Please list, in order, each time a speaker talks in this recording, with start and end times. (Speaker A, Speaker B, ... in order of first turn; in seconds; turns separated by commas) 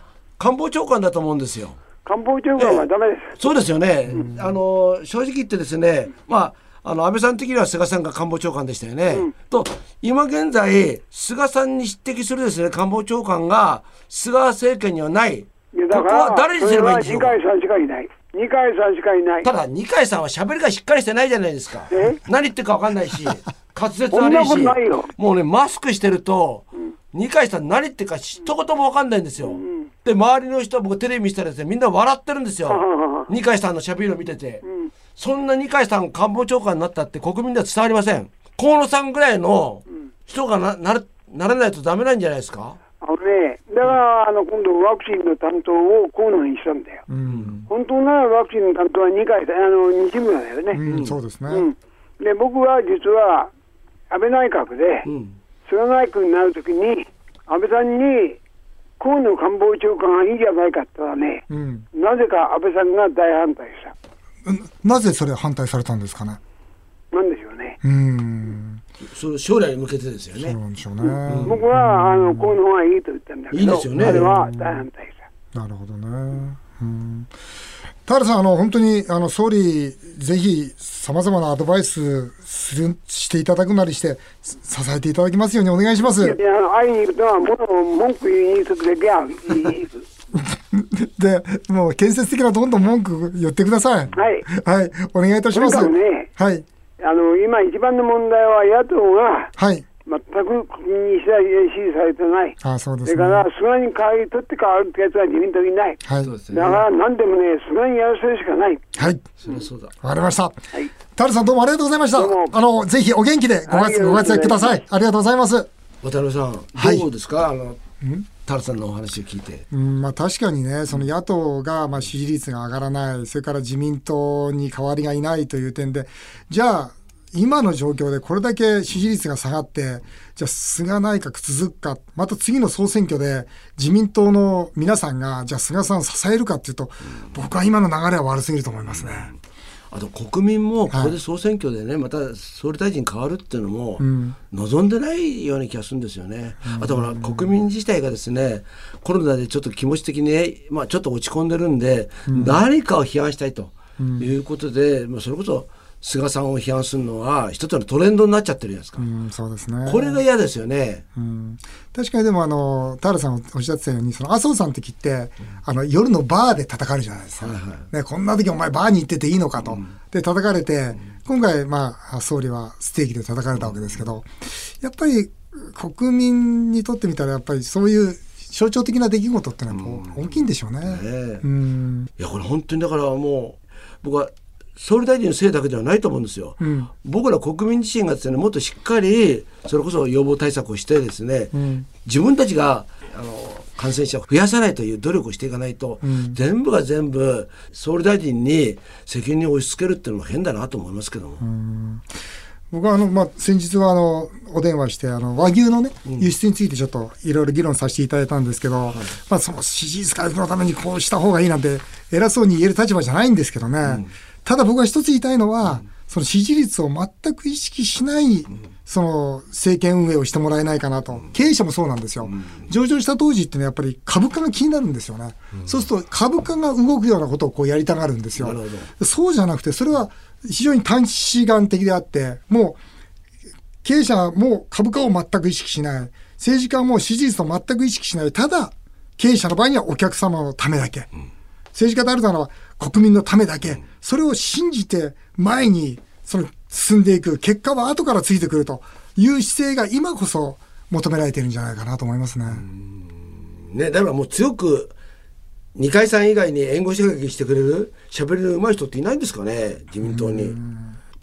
Speaker A: 0.4-1.8, Speaker B: 2.0-3.4, Speaker A: 2.6-2.9, Speaker A: 3.4-17.4, Speaker C: 4.1-4.5, Speaker B: 15.7-19.5, Speaker A: 19.4-34.6, Speaker B: 21.9-22.2, Speaker B: 24.1-25.1, Speaker B: 29.4-29.9, Speaker B: 32.7-33.3, Speaker A: 35.1-42.8, Speaker B: 43.0-47.0, Speaker C: 47.1-47.7, Speaker A: 47.3-47.5, Speaker B: 47.7-50.8, Speaker C: 50.7-51.7, Speaker A: 50.8-51.1, Speaker B: 51.5-53.5, Speaker B: 54.1-55.1, Speaker A: 55.0-55.3, Speaker B: 55.6-58.4, Speaker B: 59.0-63.9, Speaker C: 61.5-61.9, Speaker C: 64.5-66.4, Speaker B: 67.1-67.8, Speaker C: 67.8-68.8, Speaker A: 69.0-70.5, Speaker C: 70.4-72.5, Speaker A: 71.2-71.6, Speaker B: 71.4-75.2, Speaker A: 73.5-74.3, Speaker C: 73.9-74.8, Speaker C: 75.5-77.3, Speaker C: 78.1-86.4, Speaker B: 86.2-90.0, Speaker C: 90.3-96.6, Speaker B: 94.1-94.5, Speaker B: 95.5-96.3, Speaker B: 97.0-99.5, Speaker C: 99.6-99.8, Speaker B: 100.0-106.0, Speaker C: 102.6-103.5, Speaker C: 106.0-106.3, Speaker A: 106.2-106.8, Speaker B: 106.5-108.9, Speaker C: 109.0-109.2, Speaker A: 109.4-109.9, Speaker C: 110.0-110.6, Speaker C: 111.2-115.7, Speaker B: 112.1-112.5, Speaker B: 113.7-114.8, Speaker A: 116.0-117.8, Speaker C: 116.8-117.0, Speaker A: 118.4-119.7, Speaker C: 119.7-139.3, Speaker A: 139.0-139.3, Speaker A: 139.9-159.0, Speaker C: 140.9-141.1, Speaker C: 144.0-144.4, Speaker C: 146.7-147.5, Speaker C: 152.3-152.6, Speaker C: 154.0-154.3, Speaker C: 159.0-160.2, Speaker A: 159.8-161.1, Speaker C: 161.2-174.3, Speaker A: 167.4-167.8, Speaker C: 174.8-182.1, Speaker A: 179.7-180.2, Speaker A: 180.8-181.4, Speaker A: 182.2-201.4, Speaker C: 186.6-186.9, Speaker C: 191.5-191.9, Speaker C: 196.0-196.4, Speaker C: 201.4-202.1, Speaker C: 202.7-232.8, Speaker A: 222.3-222.6, Speaker A: 228.4-228.9, Speaker C: 233.8-241.1, Speaker C: 241.7-252.6, Speaker A: 252.5-254.9, Speaker A: 255.7-260.6, Speaker C: 260.0-260.9